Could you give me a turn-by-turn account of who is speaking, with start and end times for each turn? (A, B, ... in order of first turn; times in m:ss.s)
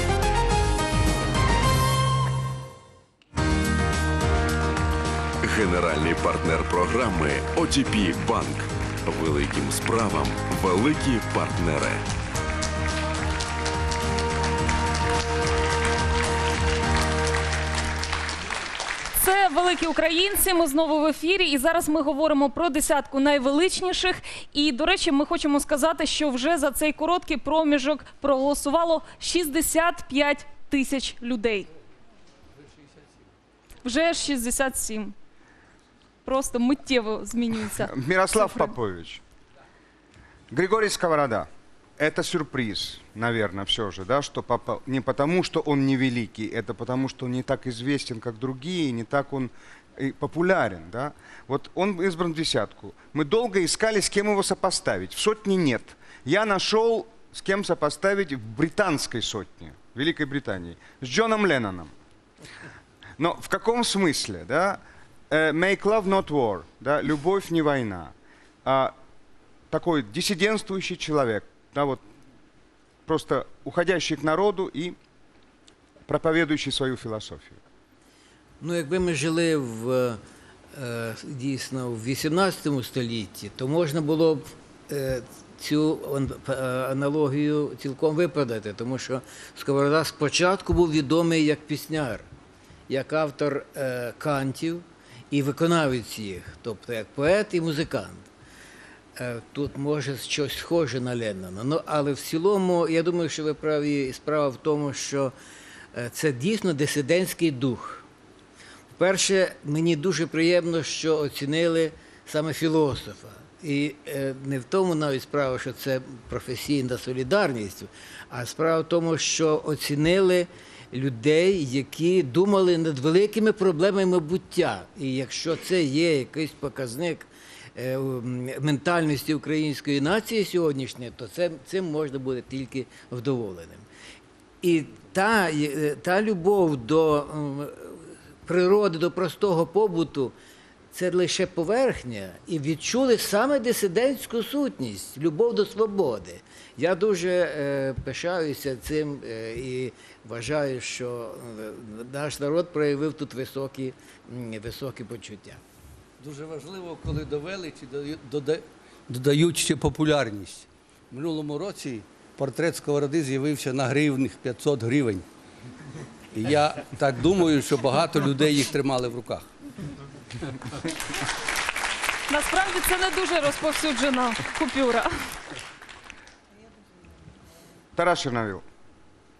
0:05.4-0:12.0 A
0:19.1-0:31.7 B
0:33.8-0:35.1 B
0:36.2-0:38.7 B
0:37.9-0:39.2 C
0:40.5-0:41.5 C
0:42.0-1:01.9 C
1:03.2-1:08.1 C
1:08.6-1:08.9 C
1:09.7-1:12.0 C
1:13.1-1:15.0 C
1:16.1-1:17.6 C
1:18.6-1:20.2 D
1:20.8-1:32.2 D
1:32.9-1:38.3 D
1:39.2-1:45.3 D
1:45.9-1:48.0 D
1:49.0-2:13.8 D
2:14.6-2:17.9 D
2:18.4-2:20.3 D
2:20.9-2:35.6 D
2:36.2-2:45.2 E
2:46.4-2:49.5 E
2:52.3-2:55.1 B
2:58.0-2:58.6 C